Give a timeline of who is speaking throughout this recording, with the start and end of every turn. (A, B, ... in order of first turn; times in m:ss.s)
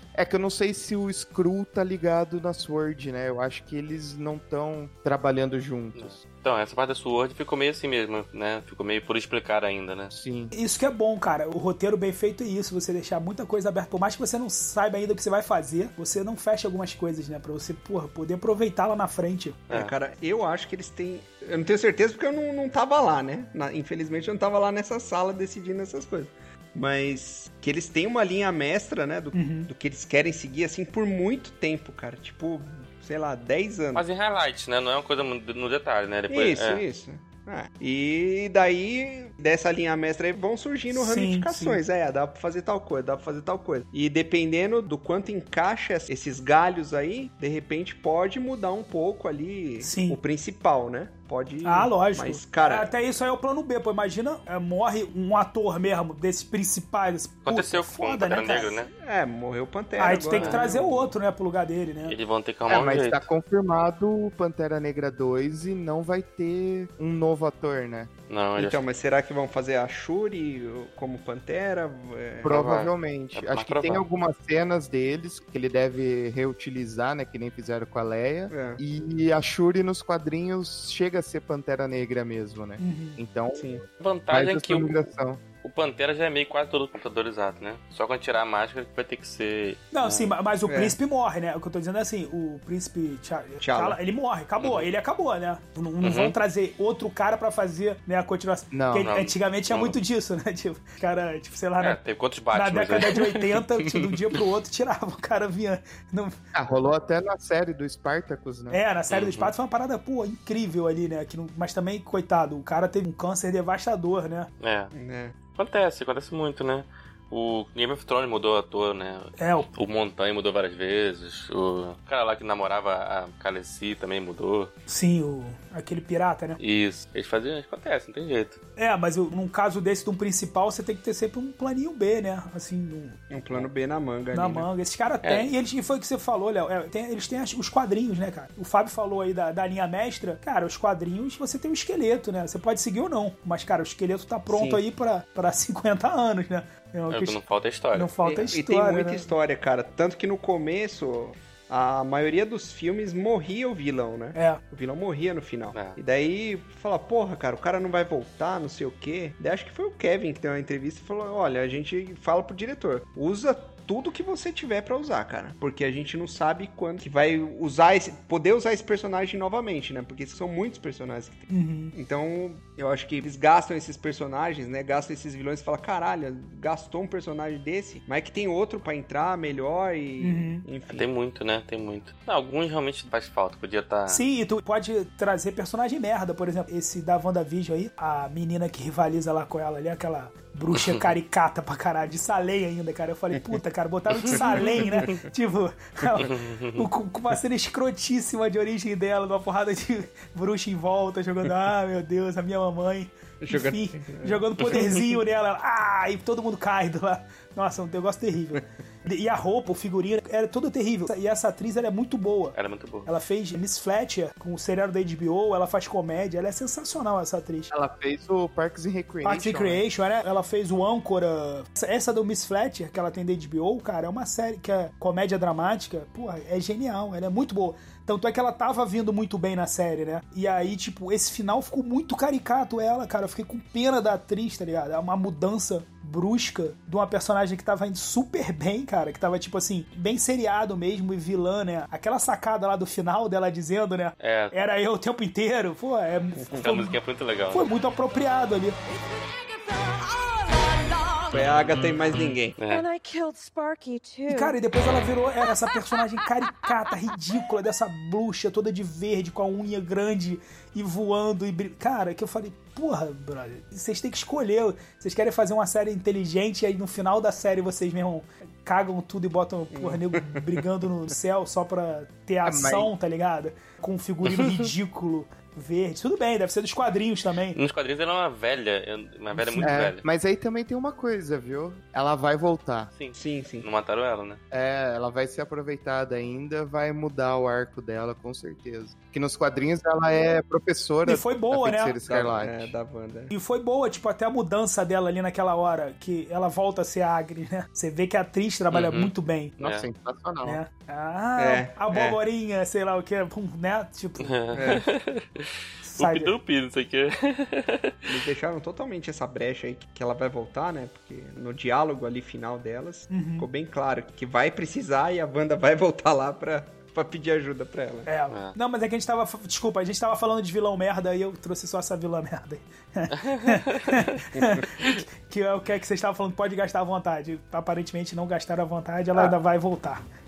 0:00.2-0:06.2 A
0:06.0-0:10.1 B
0:10.1-0:10.5 A
0:10.5-0:19.6 C
0:19.7-0:34.0 D
0:29.3-0:29.7 C
0:34.0-0:36.8 B
0:36.3-0:52.9 D
0:40.9-0:41.8 C
0:49.8-0:50.2 C
0:51.6-0:58.8 C
0:57.5-0:58.9 B
0:59.0-1:01.1 D
1:00.0-1:02.2 C
1:00.4-1:00.6 B
1:02.1-1:03.3 B
1:02.7-1:08.1 A
1:08.3-1:08.8 B
1:08.6-1:12.6 D
1:12.4-1:25.4 A
1:12.5-1:14.0 B
1:18.5-1:18.8 D
1:22.8-1:23.2 C
1:23.6-1:23.8 D
1:24.0-1:25.0 B
1:25.6-1:30.4 B
1:29.9-1:42.0 C
1:30.7-1:31.0 D
1:33.6-1:34.0 D
1:34.6-1:34.9 B
1:36.0-1:36.4 B
1:38.7-1:39.1 A
1:39.0-1:40.0 B
1:41.8-1:44.4 B
1:42.5-1:46.4 C
1:46.5-1:48.8 A
1:48.7-1:54.5 C
1:49.1-1:49.5 B
1:54.6-1:54.9 B
1:54.9-1:55.4 D
1:55.6-2:04.7 B
1:59.4-1:59.7 C
2:04.9-2:06.6 C
2:06.6-2:08.6 B
2:08.8-2:13.2 C
2:13.3-2:14.7 D
2:14.3-2:27.4 C
2:24.5-2:24.8 D
2:27.1-2:28.1 B
2:27.9-2:29.3 C
2:28.2-3:01.1 D
2:34.4-2:34.6 C
2:51.5-2:52.0 C
3:00.2-3:00.6 C
3:00.9-3:04.2 B
3:04.1-3:37.7 C
3:10.7-3:11.1 B
3:14.8-3:15.1 D
3:16.2-3:16.8 B
3:23.4-3:24.8 D
3:32.6-3:33.1 B
3:37.7-3:39.8 A
3:39.2-4:07.0 C
4:04.2-4:04.6 B
4:06.5-4:07.7 B
4:07.5-4:08.8 C
4:08.9-4:11.5 E
4:11.3-4:12.6 D
4:12.1-4:12.8 B
4:12.6-4:14.6 E
4:14.3-4:37.6 C
4:15.5-4:15.8 E
4:29.7-4:30.5 D
4:32.4-4:32.9 A
4:37.6-4:40.0 B
4:39.4-4:39.7 C
4:39.6-4:42.9 A
4:42.9-4:44.4 B
4:43.2-4:43.7 D
4:44.5-4:52.7 A
4:51.0-4:52.0 C
4:52.1-4:53.3 D
4:53.3-4:59.6 C
4:58.7-4:59.9 B
4:59.6-5:00.6 A
5:00.4-5:04.7 C
5:01.4-5:02.2 D
5:04.2-5:08.1 B
5:04.6-5:04.8 D
5:05.8-5:06.3 C
5:08.1-5:18.1 D
5:13.1-5:13.5 C
5:18.1-5:30.0 C
5:23.1-5:24.2 B
5:24.4-5:24.6 D